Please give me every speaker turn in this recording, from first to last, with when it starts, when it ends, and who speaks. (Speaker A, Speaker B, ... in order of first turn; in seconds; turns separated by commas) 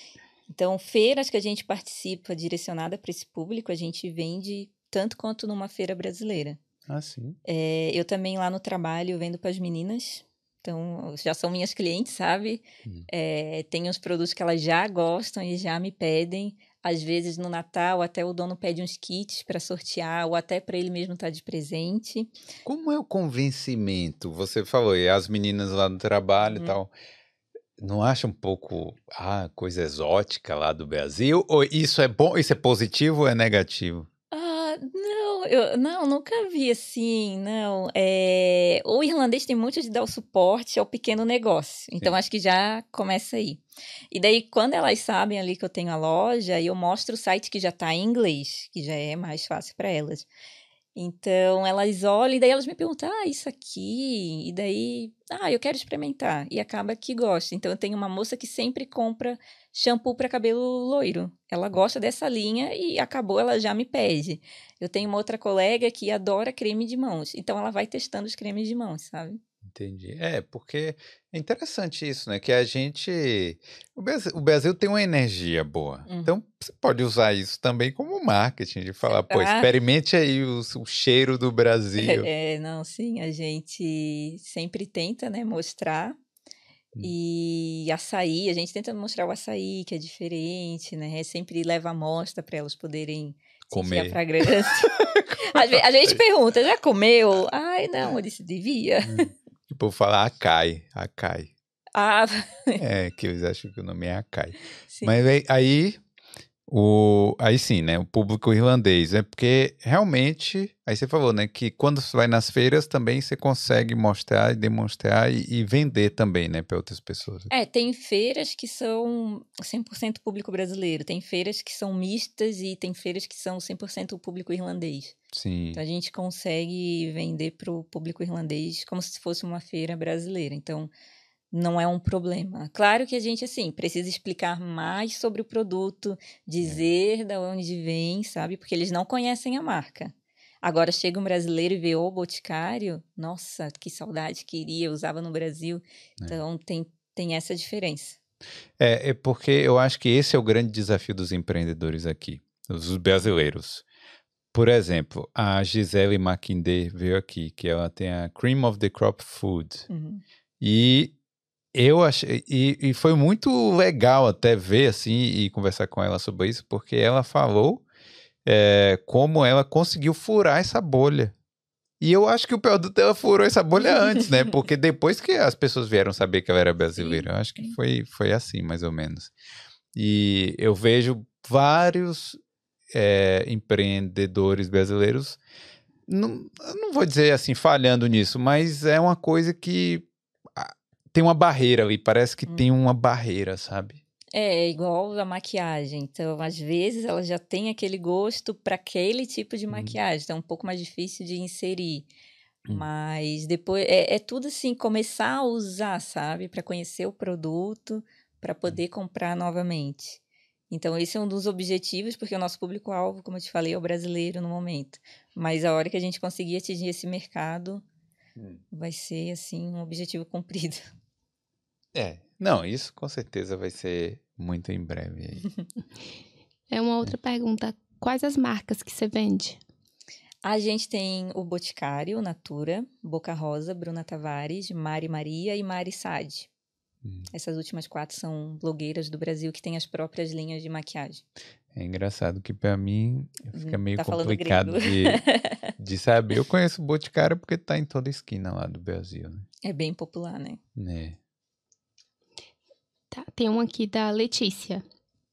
Speaker A: 0.5-6.6, Speaker B: 6.9-7.4, Speaker A: 7.4-22.3, Speaker B: 22.6-26.9, Speaker A: 26.4-26.8, Speaker B: 27.8-34.1, Speaker A: 34.3-50.3, Speaker A: 51.0-69.4, Speaker B: 69.7-82.3, Speaker A: 76.1-76.3, Speaker A: 79.0-79.7, Speaker A: 82.0-86.2, Speaker A: 87.0-99.3, Speaker B: 93.7-94.2, Speaker B: 95.0-96.1, Speaker B: 99.0-101.5, Speaker A: 101.9-102.8, Speaker B: 102.8-106.0, Speaker A: 104.9-105.1, Speaker B: 106.7-117.5, Speaker A: 117.5-125.2, Speaker B: 125.3-125.8, Speaker A: 125.7-130.9, Speaker A: 131.5-148.2, Speaker B: 136.6-136.9, Speaker B: 148.8-153.8, Speaker B: 154.5-159.9, Speaker A: 159.9-160.2, Speaker B: 160.6-161.1, Speaker B: 161.7-167.8, Speaker B: 168.4-171.3, Speaker B: 172.0-179.3, Speaker A: 177.0-177.7, Speaker B: 179.9-182.4, Speaker B: 182.9-185.4, Speaker B: 186.1-194.0, Speaker A: 194.3-202.1, Speaker A: 202.7-217.8, Speaker A: 218.7-220.8, Speaker B: 221.9-225.5, Speaker C: 226.7-229.6, Speaker A: 230.4-236.5, Speaker B: 237.0-237.3, Speaker A: 237.3-241.2, Speaker B: 241.7-245.2, Speaker A: 243.5-245.7, Speaker B: 245.8-249.4, Speaker A: 249.6-250.6, Speaker B: 250.8-251.2, Speaker C: 253.1-254.8